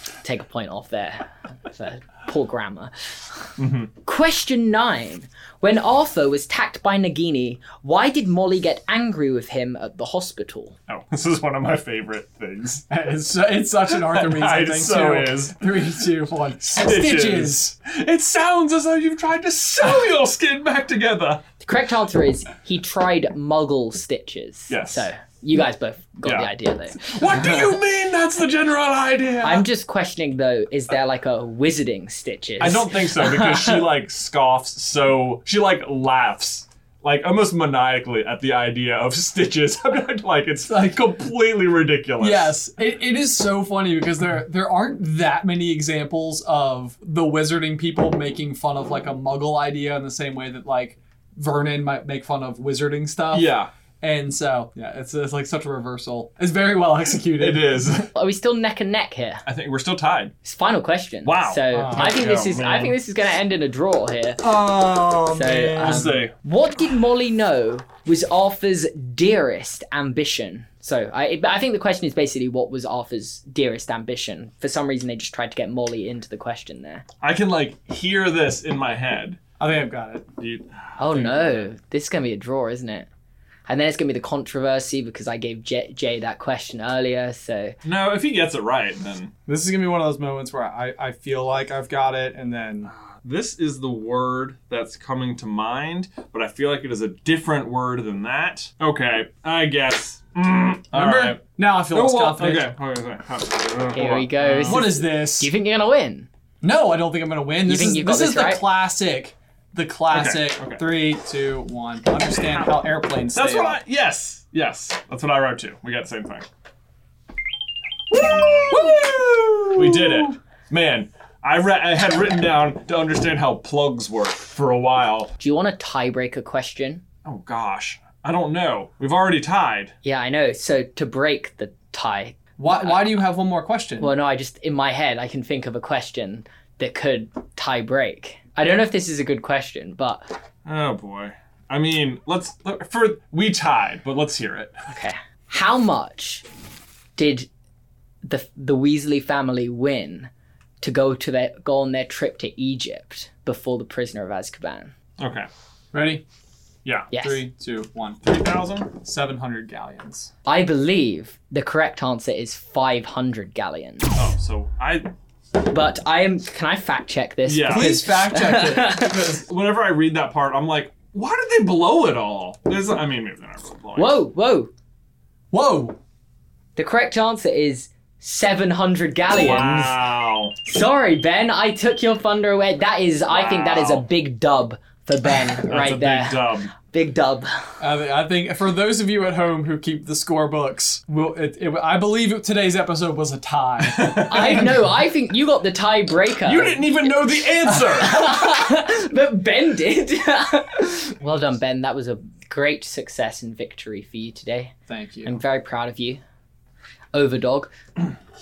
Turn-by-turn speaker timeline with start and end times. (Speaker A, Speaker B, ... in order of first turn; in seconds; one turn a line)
Speaker A: 0.2-3.5
Speaker B: 3.6-3.9
Speaker A: 4.0-10.8
Speaker B: 10.9-12.8
Speaker C: 12.9-17.7
Speaker B: 13.9-15.9
Speaker B: 16.6-21.4
Speaker A: 21.6-27.6
Speaker B: 24.7-25.1
Speaker B: 26.2-29.6
Speaker A: 29.4-33.9
Speaker B: 32.6-42.5
Speaker C: 40.7-41.0
Speaker C: 42.2-58.0
Speaker B: 53.3-53.7
Speaker B: 57.4-58.1
Speaker A: 58.1-59.4
Speaker B: 59.5-60.3
Speaker A: 60.4-64.5
Speaker B: 61.2-63.0
Speaker C: 61.7-62.1
Speaker C: 64.4-66.2
Speaker A: 65.2-77.0
Speaker B: 65.8-66.3
Speaker B: 77.2-79.4
Speaker C: 79.6-80.3
Speaker B: 80.4-81.7
Speaker A: 81.0-83.1
Speaker A: 83.7-87.8
Speaker B: 87.8-89.3
Speaker C: 89.5-92.9
Speaker B: 92.8-101.4
Speaker C: 100.9-102.7
Speaker B: 101.9-104.9
Speaker A: 103.9-106.3
Speaker C: 104.6-105.5
Speaker C: 106.6-113.8
Speaker A: 107.6-108.7
Speaker B: 110.1-110.9
Speaker B: 112.3-112.8
Speaker B: 113.3-116.5
Speaker B: 118.1-119.0
Speaker C: 118.7-120.3
Speaker B: 119.7-125.3
Speaker A: 125.4-127.0
Speaker B: 127.2-129.9
Speaker A: 130.0-133.1
Speaker C: 132.6-134.1
Speaker A: 134.0-140.3
Speaker B: 140.6-144.7
Speaker A: 144.9-146.4
Speaker A: 147.2-147.5
Speaker A: 148.2-150.3
Speaker A: 150.8-154.9
Speaker B: 155.2-155.5
Speaker C: 155.9-156.2
Speaker B: 156.8-157.1
Speaker A: 157.1-157.5
Speaker C: 157.2-158.2
Speaker B: 158.2-158.9
Speaker C: 158.9-160.3
Speaker A: 160.4-164.2
Speaker B: 164.1-165.1
Speaker A: 165.6-169.3
Speaker B: 167.4-168.0
Speaker C: 167.7-169.1
Speaker B: 169.0-174.2
Speaker A: 173.9-174.7
Speaker C: 175.5-176.0
Speaker A: 176.8-180.0
Speaker B: 179.4-180.5
Speaker A: 180.6-187.7
Speaker B: 183.3-184.1
Speaker B: 185.6-186.7
Speaker C: 187.8-194.8
Speaker B: 193.8-194.7
Speaker A: 194.3-204.7
Speaker B: 196.4-198.4
Speaker C: 204.9-205.4
Speaker A: 205.2-206.2
Speaker A: 207.1-207.7